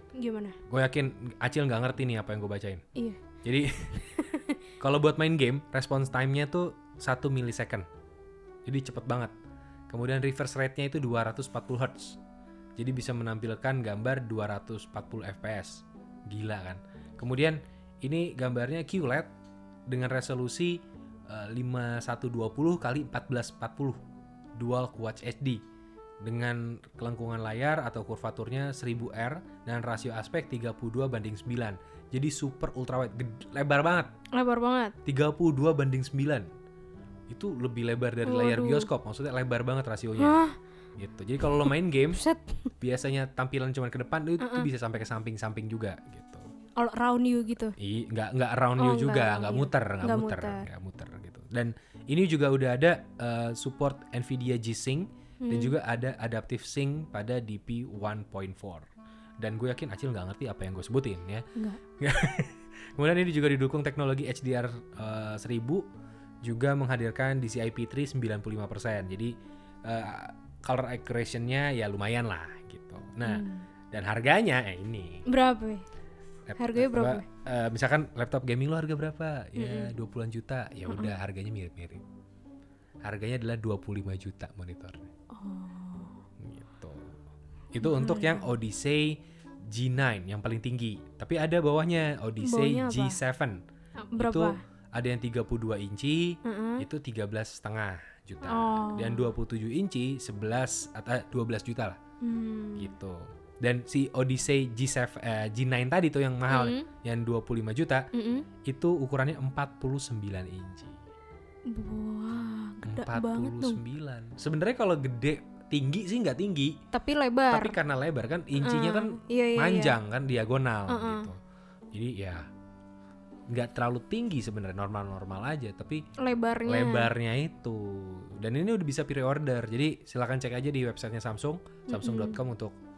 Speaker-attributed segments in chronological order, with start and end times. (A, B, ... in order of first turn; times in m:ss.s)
0:00.2-0:00.6 A
0:00.7-0:02.8 B
0:03.4-0:04.0 B
0:04.2-0:04.6 A
0:04.8-0:07.9 B
0:08.6-0:09.3 B
0:09.9-0:12.2 B
0:12.8-0:19.3 B
0:19.9-0:24.0 B
0:24.6-0:25.6 B
0:26.2-0:34.1 B
0:34.3-0:35.0 A
0:35.0-0:36.5 B
0:37.3-0:40.4 B
0:38.2-0:38.9 A
0:40.2-0:40.6 A
0:41.0-0:42.2 B
0:41.6-0:42.7 A
0:42.8-0:46.5 B
0:44.4-0:44.7 A
0:46.8-0:47.8 A
0:47.8-0:58.9 B
0:48.8-0:50.7 A
0:55.4-0:55.8 A
0:59.4-1:01.5 B
1:02.0-1:05.8 B
1:06.4-1:09.3 B
1:09.8-1:15.2 B
1:13.2-1:13.7 A
1:15.3-1:15.8 A
1:16.5-1:22.0 B
1:16.6-1:17.3 A
1:19.6-1:19.9 A
1:20.9-1:21.1 A
1:23.0-1:25.1 B
1:25.3-1:26.2 A
1:26.4-1:27.1 B
1:27.7-1:29.2 B
1:27.8-1:28.5 A
1:29.7-1:33.6 B
1:32.4-1:33.2 A
1:34.1-1:34.6 A
1:34.2-1:42.0 B
1:36.4-1:36.9 A
1:38.4-1:39.3 A
1:42.2-1:43.0 A
1:42.8-1:48.1 B
1:46.5-1:46.9 A
1:48.1-1:48.5 A
1:48.6-1:51.0 B
1:51.7-1:53.8 A
1:52.9-1:56.8 B
1:56.9-1:57.8 A
1:57.5-2:01.4 B
1:58.6-2:00.0 A
2:00.9-2:01.3 A
2:01.9-2:02.5 B
2:03.5-2:06.1 B
2:06.2-2:07.1 A
2:06.7-2:12.8 B
2:11.9-2:12.4 A